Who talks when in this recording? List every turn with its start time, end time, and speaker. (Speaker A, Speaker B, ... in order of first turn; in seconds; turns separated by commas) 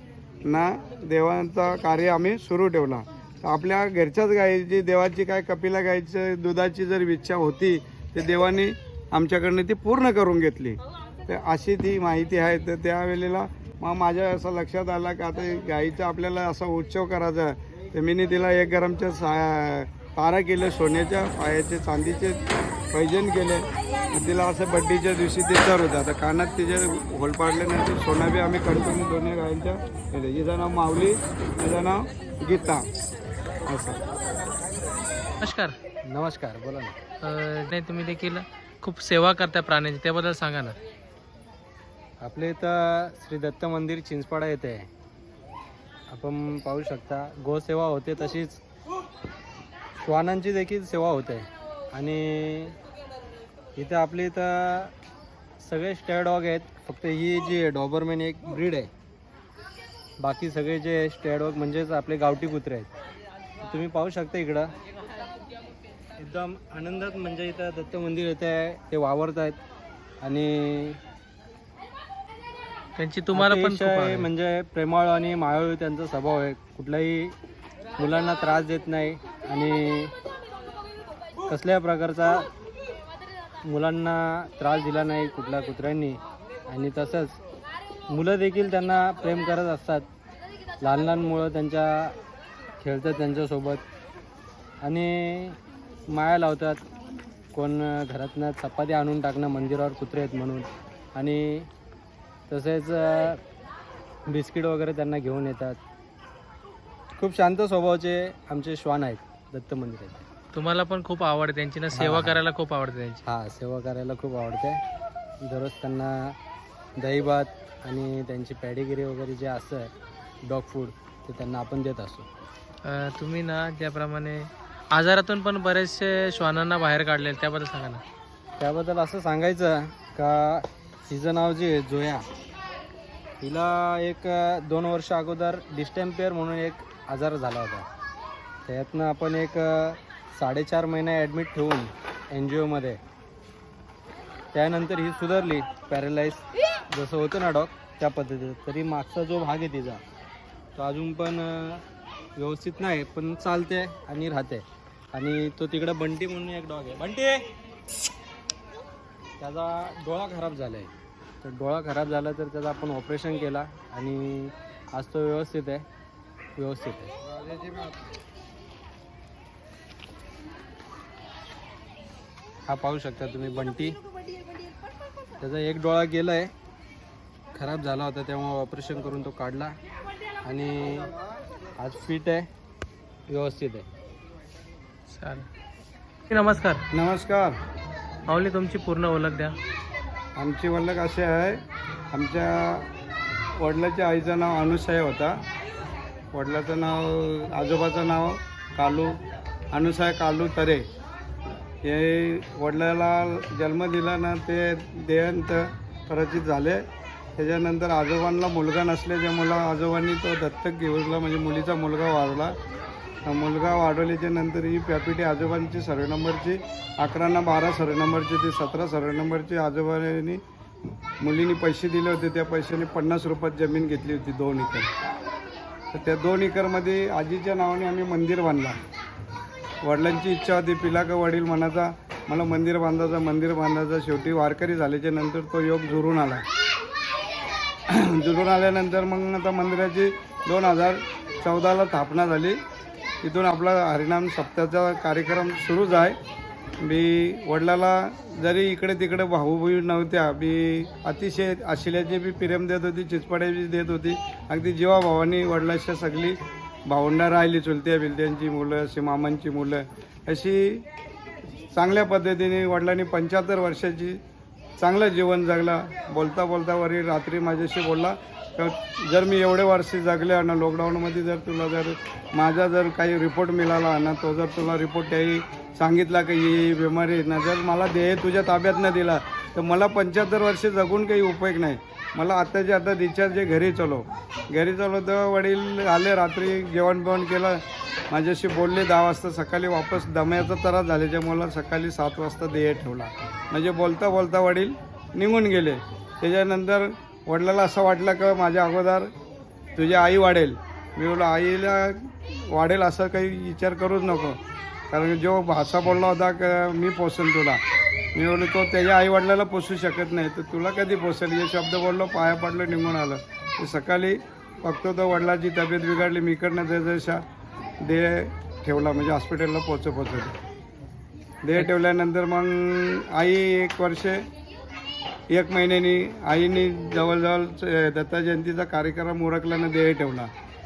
Speaker A: 0.5-22.4, Speaker A: 22.9-32.9, Speaker A: 33.7-34.0, Speaker B: 35.4-35.8, Speaker C: 36.0-37.0, Speaker B: 37.2-40.8, Speaker C: 42.2-44.9, Speaker C: 46.1-48.6, Speaker C: 50.0-52.8, Speaker C: 53.8-54.9, Speaker C: 55.6-58.9, Speaker C: 60.2-62.9, Speaker C: 63.6-64.7, Speaker C: 66.2-69.6, Speaker C: 70.2-71.0, Speaker B: 73.0-74.3, Speaker C: 73.3-77.4, Speaker C: 78.0-80.1, Speaker C: 81.5-82.5, Speaker C: 83.7-87.4, Speaker C: 88.1-90.1, Speaker C: 90.8-92.2, Speaker C: 92.8-93.8, Speaker C: 94.8-96.8, Speaker C: 97.5-101.7, Speaker C: 102.5-103.4, Speaker C: 104.3-105.8, Speaker C: 107.2-110.2, Speaker B: 110.5-113.2, Speaker C: 111.9-112.4, Speaker C: 113.3-114.8, Speaker C: 115.4-116.4, Speaker C: 117.0-119.9, Speaker C: 120.4-122.3, Speaker B: 122.8-128.0, Speaker C: 128.6-132.3, Speaker C: 133.4-137.9, Speaker C: 138.7-143.0, Speaker C: 144.5-150.0, Speaker C: 150.8-151.8, Speaker C: 152.4-157.5, Speaker C: 159.4-160.9, Speaker C: 161.4-165.9, Speaker C: 166.6-167.1, Speaker C: 172.7-174.0, Speaker C: 175.4-176.5, Speaker C: 177.6-179.8, Speaker C: 180.4-181.2, Speaker C: 181.8-182.5, Speaker C: 183.3-183.9, Speaker B: 185.1-185.5, Speaker B: 186.3-186.9, Speaker A: 186.9-187.6, Speaker B: 188.3-189.6, Speaker A: 190.4-192.9, Speaker A: 193.6-195.4, Speaker A: 196.3-199.2, Speaker A: 199.7-200.9, Speaker A: 201.8-206.8, Speaker A: 207.4-212.6, Speaker A: 213.3-220.4, Speaker A: 221.2-224.9, Speaker A: 225.9-228.8, Speaker A: 229.8-236.4, Speaker A: 237.9-242.6, Speaker A: 243.2-246.2, Speaker A: 246.8-260.9, Speaker A: 261.7-264.2, Speaker A: 264.8-299.1, Speaker A: 299.8-304.4, Speaker A: 304.9-307.6, Speaker A: 308.2-317.2, Speaker A: 317.8-320.4, Speaker A: 321.4-324.2, Speaker A: 325.3-330.3